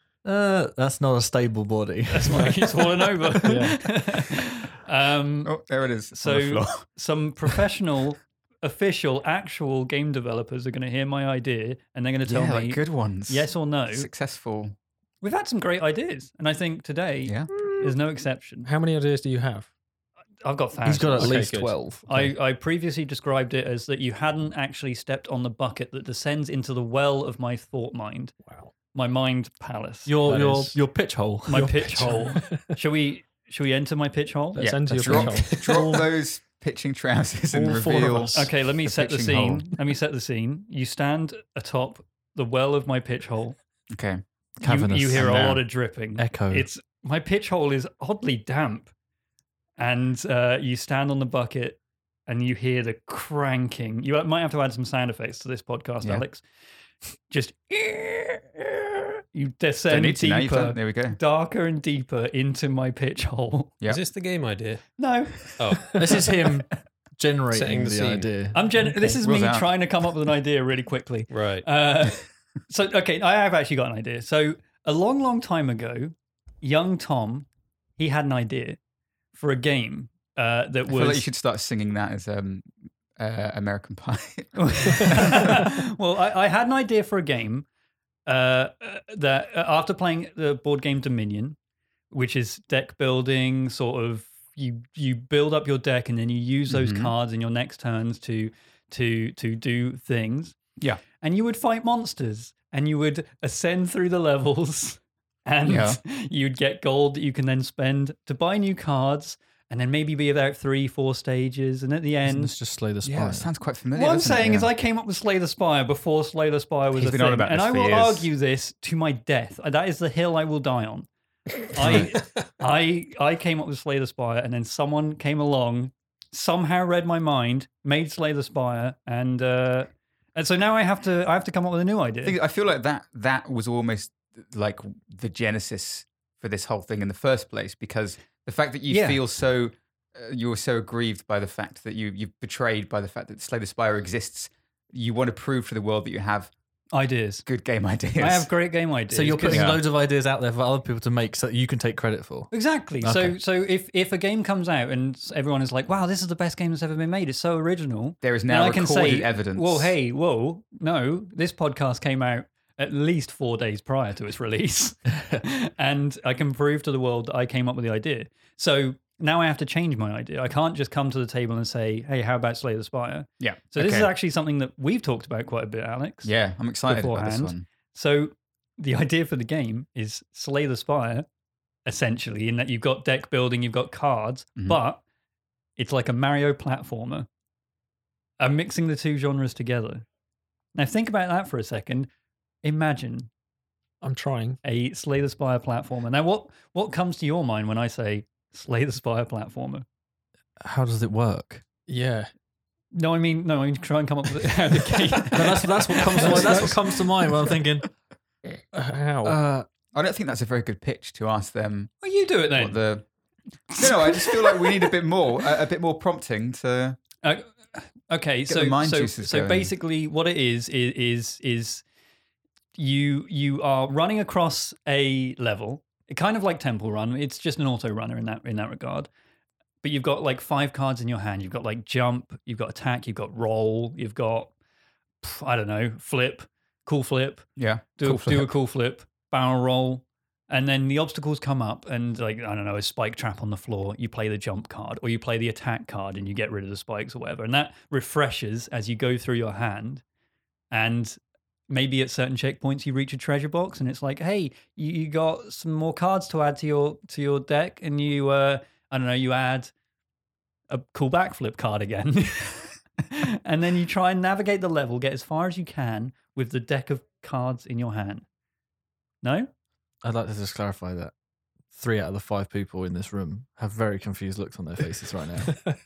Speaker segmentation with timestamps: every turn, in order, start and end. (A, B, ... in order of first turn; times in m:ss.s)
0:00.2-0:03.7 A
0:02.1-0:05.6 B
0:03.4-0:03.8 C
0:05.4-0:06.8 D
0:06.1-0:14.1 B
0:12.2-0:14.8 D
0:15.2-0:18.7 B
0:17.2-0:17.6 D
0:18.6-0:19.7 C
0:20.4-0:28.3 B
0:20.8-0:22.3 A
0:21.2-0:21.8 C
0:28.4-0:28.7 C
0:28.9-0:30.8 B
0:30.0-0:32.4 A
0:31.4-0:35.2 B
0:31.6-0:32.6 C
0:34.5-0:36.1 C
0:34.6-0:39.7 D
0:37.5-0:38.5 C
0:38.3-0:43.5 B
0:43.9-0:44.2 D
0:44.6-0:46.7 A
0:44.6-0:48.9 B
0:45.2-0:45.6 D
0:49.8-0:56.4 B
0:57.3-1:03.8 B
0:59.9-1:01.2 D
1:03.9-1:06.0 E
1:05.0-1:05.6 B
1:05.9-1:08.7 A
1:07.5-1:08.3 E
1:08.5-1:18.8 B
1:08.8-1:09.2 C
1:09.2-1:09.7 D
1:11.3-1:11.6 E
1:19.3-1:21.2 B
1:20.9-1:25.8 D
1:24.6-1:27.6 B
1:28.2-1:31.6 B
1:32.1-1:40.6 B
1:36.7-1:37.1 D
1:41.2-1:52.5 B
1:45.6-1:46.0 D
1:52.2-1:53.5 A
1:53.0-1:54.7 D
1:53.9-2:01.1 B
1:56.9-1:58.3 D
2:01.6-2:12.4 B
2:01.8-2:02.1 D
2:12.2-2:26.5 D
2:18.9-2:19.2 B
2:26.9-2:27.4 B
2:27.4-2:28.5 D
2:28.2-2:29.8 B
2:29.1-2:33.4 A
2:29.5-2:29.8 D
2:32.5-2:56.3 B
2:38.2-2:39.9 D
2:53.4-2:54.1 D
2:56.2-2:57.6 D
2:56.8-3:01.2 B
3:01.8-3:05.0 B
3:05.8-3:07.3 B
3:08.4-3:10.0 B
3:10.7-3:12.1 B
3:12.6-3:13.3 B
3:14.0-3:14.6 C
3:14.6-3:19.8 B
3:20.6-3:21.6 A
3:21.9-3:22.3 C
3:22.9-3:26.8 B
3:24.7-3:26.8 D
3:25.3-3:27.9 A
3:26.4-3:26.7 C
3:28.7-3:29.4 C
3:29.2-3:29.6 A
3:29.9-3:33.0 D
3:32.0-3:32.8 B
3:33.7-3:37.0 D
3:33.8-3:34.8 B
3:37.2-3:41.8 B
3:38.5-3:39.7 D
3:42.8-3:49.1 B
3:49.8-3:54.5 B
3:55.2-4:10.0 B
3:57.6-3:58.5 D
4:10.7-4:19.7 B
4:20.7-4:28.2 B
4:29.2-4:29.5 B
4:30.0-4:31.1 A
4:31.7-4:35.7 A